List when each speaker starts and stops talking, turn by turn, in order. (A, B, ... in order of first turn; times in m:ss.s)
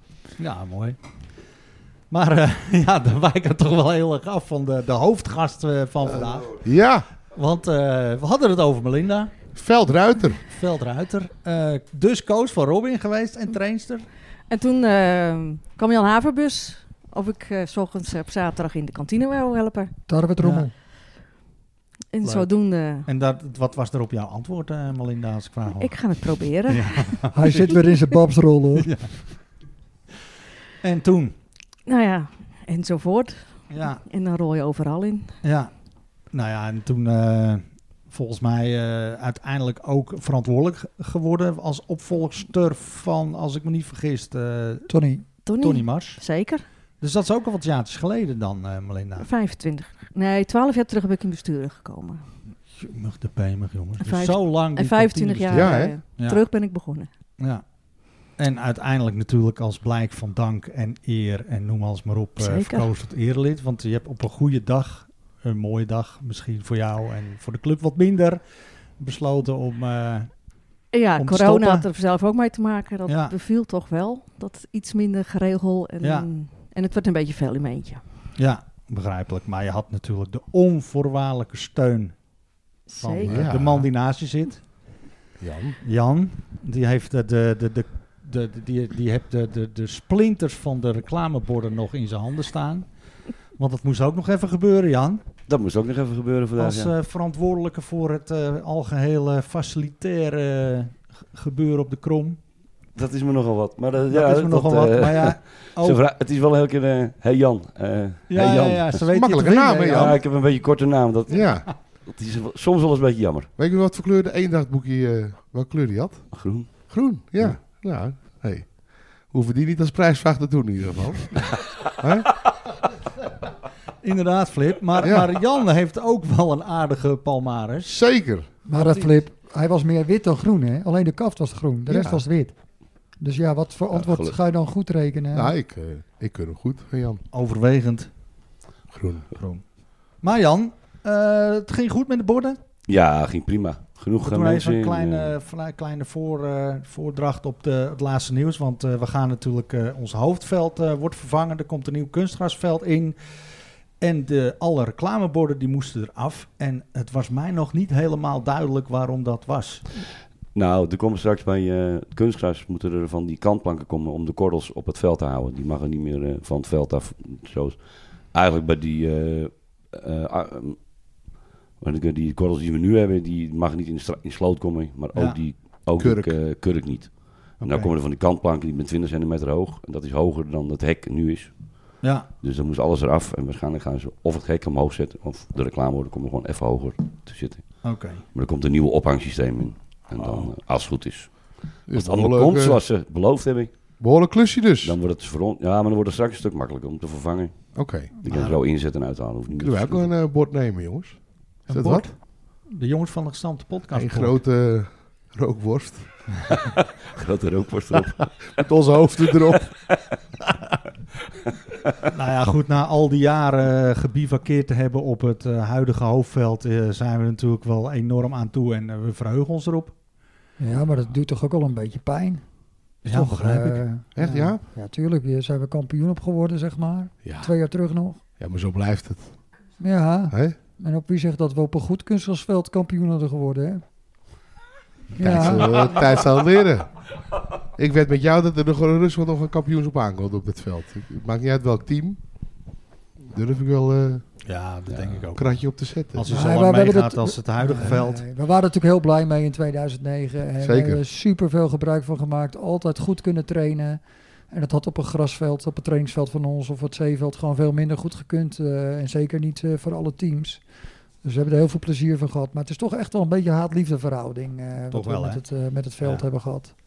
0:00.4-0:01.0 A
0:02.1-0:06.7 A
0:06.6-0:07.1 B
0:07.3-0:09.3 A
0:09.6-0:10.4 B
0:10.5-0:14.1 A
0:14.5-0:20.0 C
0:20.1-0:20.7 D
0:20.4-0:20.7 A
0:22.1-0:23.1 C
0:22.2-0:22.5 A
0:23.0-0:27.8 A
0:25.8-0:27.1 C
0:27.3-0:28.9 D
0:28.8-0:29.2 A
0:30.8-0:31.3 A
0:31.9-0:35.4 C
0:33.7-0:34.0 A
0:35.4-0:35.7 A
0:36.3-0:44.9 A
0:44.9-0:45.3 D
0:45.4-0:46.6 C
0:45.6-0:46.2 A
0:47.0-0:49.3 A
0:49.2-0:52.2 C
0:52.7-0:56.4 A
0:54.0-0:57.1 C
0:55.5-0:56.0 B
0:57.4-0:57.6 A
0:58.2-1:08.4 A
1:02.4-1:02.9 C
1:09.0-1:10.3 A
1:10.9-1:18.0 C
1:11.2-1:11.9 A
1:13.1-1:13.4 A
1:16.0-1:16.3 A
1:18.4-1:22.2 A
1:22.9-1:23.4 C
1:23.0-1:24.6 A
1:23.2-1:23.9 B
1:25.4-1:25.8 B
1:25.8-1:32.9 A
1:33.6-1:35.2 A
1:35.5-1:36.9 E
1:36.6-1:42.4 A
1:42.9-1:49.0 E
1:44.1-1:46.0 A
1:48.3-1:50.2 A
1:49.1-1:50.2 B
1:49.9-1:53.5 E
1:51.3-1:51.7 B
1:53.6-2:02.3 B
1:56.3-1:57.6 E
2:04.0-2:08.0 A
2:05.0-2:05.3 B
2:07.9-2:08.5 B
2:08.7-2:12.5 D
2:08.7-2:09.1 A
2:11.9-2:12.2 B
2:13.2-2:15.5 D
2:13.9-2:14.3 E
2:15.3-2:17.2 B
2:17.3-2:18.1 A
2:18.9-2:19.3 B
2:19.3-2:19.6 A
2:20.2-2:22.6 A
2:22.9-2:25.3 E
2:24.2-2:40.0 A
2:40.5-2:51.3 E
2:51.8-3:13.7 E
2:56.0-2:56.4 B
2:57.6-2:57.9 A
3:02.0-3:02.3 A
3:07.8-3:08.2 A
3:11.9-3:12.8 B
3:14.0-3:15.0 B
3:14.8-3:20.1 E
3:17.8-3:18.1 B
3:18.2-3:18.6 A
3:19.6-3:22.1 B
3:21.7-3:24.4 A
3:23.9-3:26.4 B
3:27.2-3:28.5 E
3:28.5-3:29.7 B
3:32.1-3:39.9 A
3:40.6-3:42.4 D
3:43.0-3:43.8 A
3:43.1-3:48.2 D
3:44.2-3:44.6 B
3:47.2-3:47.5 B
3:48.4-3:49.3 B
3:49.8-3:53.8 D
3:50.3-3:50.6 B
3:55.2-3:56.0 D
3:55.2-3:57.0 B
3:57.8-4:02.2 B
4:03.2-4:04.2 B
4:04.4-4:08.2 A
4:05.3-4:06.3 B
4:06.3-4:14.0 D
4:10.6-4:11.0 B
4:14.5-4:20.6 D
4:21.2-4:26.7 D
4:24.9-4:25.4 A